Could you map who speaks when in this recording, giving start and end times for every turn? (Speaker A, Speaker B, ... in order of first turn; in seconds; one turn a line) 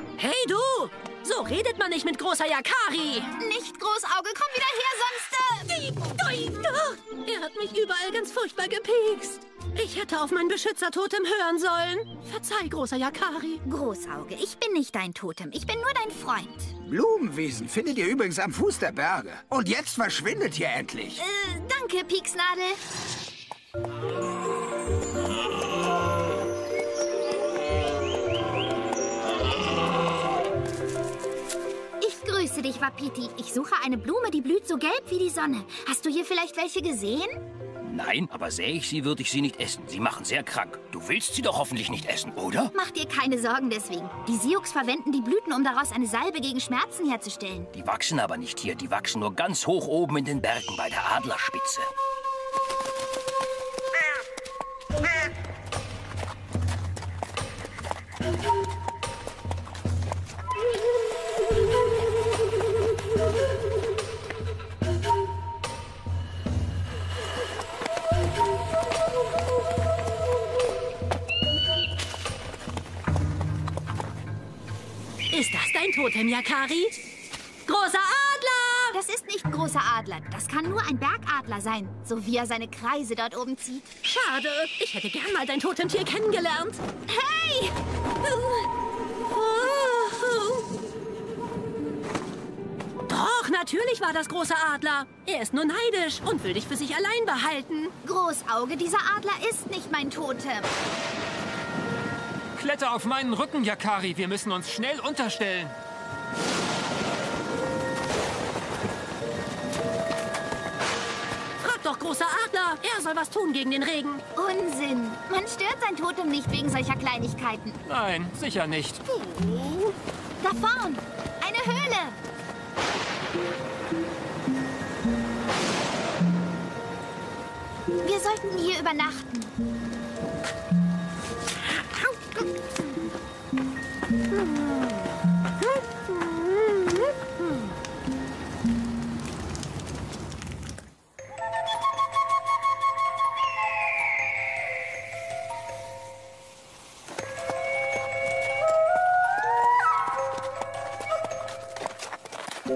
Speaker A: 0.2-3.3
Speaker B: 3.4-5.7
Speaker A: 5.7-13.6
Speaker B: 13.6-16.7
Speaker C: 16.8-21.2
Speaker B: 21.2-22.8
Speaker B: 32.0-37.4
Speaker D: 37.8-42.7
Speaker B: 42.7-47.7
Speaker D: 47.7-51.9
Speaker A: 75.3-77.0
Speaker A: 77.7-79.0
Speaker B: 78.9-83.8
Speaker A: 84.0-86.8
Speaker B: 87.1-87.7
Speaker A: 88.3-88.6
Speaker A: 89.3-90.6
Speaker A: 93.1-97.9
Speaker B: 98.0-100.7
Speaker E: 102.5-105.8
Speaker A: 111.6-114.2
Speaker B: 114.3-117.8
Speaker E: 117.8-119.0
Speaker B: 120.4-122.2
Speaker B: 128.0-129.5
Speaker A: 131.8-132.4
Speaker A: 134.4-134.6
Speaker A: 135.6-137.1